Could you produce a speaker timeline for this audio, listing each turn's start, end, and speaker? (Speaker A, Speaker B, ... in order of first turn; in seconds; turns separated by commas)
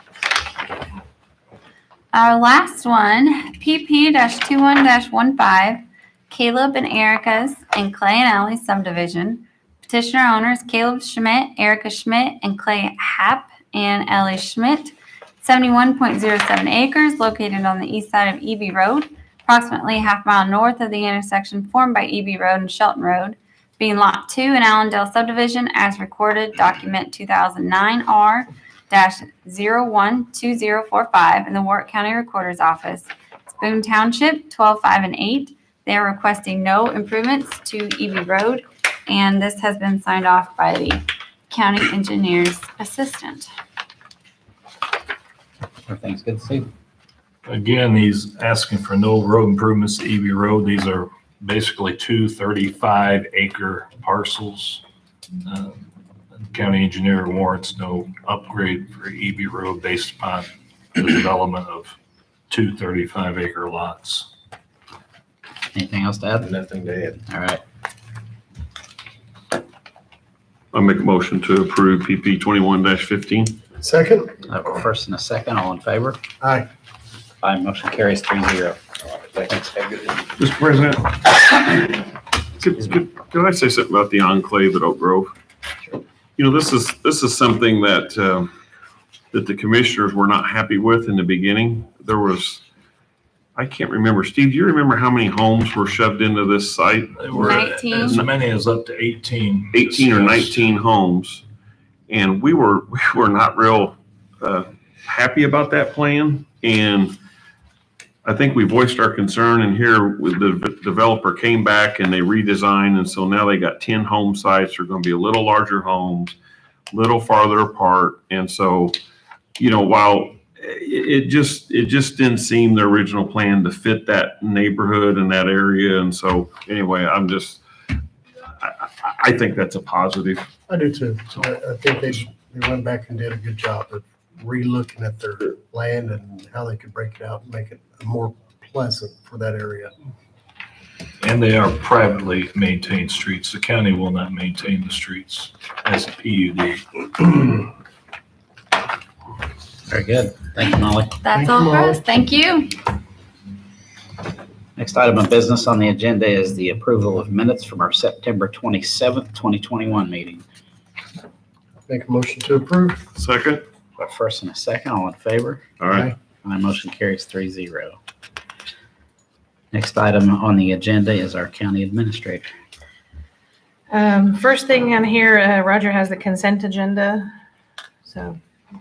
Speaker A: 2.1-43.5, Speaker B: 45.9-46.7, Speaker C: 47.5-54.8, Speaker C: 55.5-55.8, Speaker C: 56.4-62.0, Speaker C: 62.5-64.3, Speaker B: 65.7-66.6, Speaker D: 66.6-67.1, Speaker B: 67.1-67.6, Speaker E: 70.7-73.6, Speaker D: 73.8-74.4, Speaker B: 74.4-76.2, Speaker D: 76.4-76.7, Speaker B: 77.4-80.2, Speaker C: 80.4-81.0, Speaker E: 81.5-82.0, Speaker E: 82.6-85.3, Speaker E: 86.4-88.5, Speaker E: 89.3-92.6, Speaker E: 93.5-98.3, Speaker C: 97.2-100.7, Speaker A: 97.3-98.2, Speaker E: 99.7-101.5, Speaker E: 102.1-107.2, Speaker E: 108.2-116.3, Speaker E: 116.9-119.0, Speaker E: 119.6-127.7, Speaker E: 128.4-130.5, Speaker D: 130.7-139.9, Speaker C: 141.2-147.7, Speaker B: 149.9-151.2, Speaker A: 151.2-152.8, Speaker D: 151.4-151.9, Speaker B: 154.8-160.4, Speaker D: 161.9-163.0, Speaker E: 163.2-163.7, Speaker B: 164.0-165.7, Speaker E: 165.8-166.1, Speaker B: 166.4-168.0, Speaker B: 169.7-172.5, Speaker F: 173.9-177.3, Speaker F: 178.1-178.4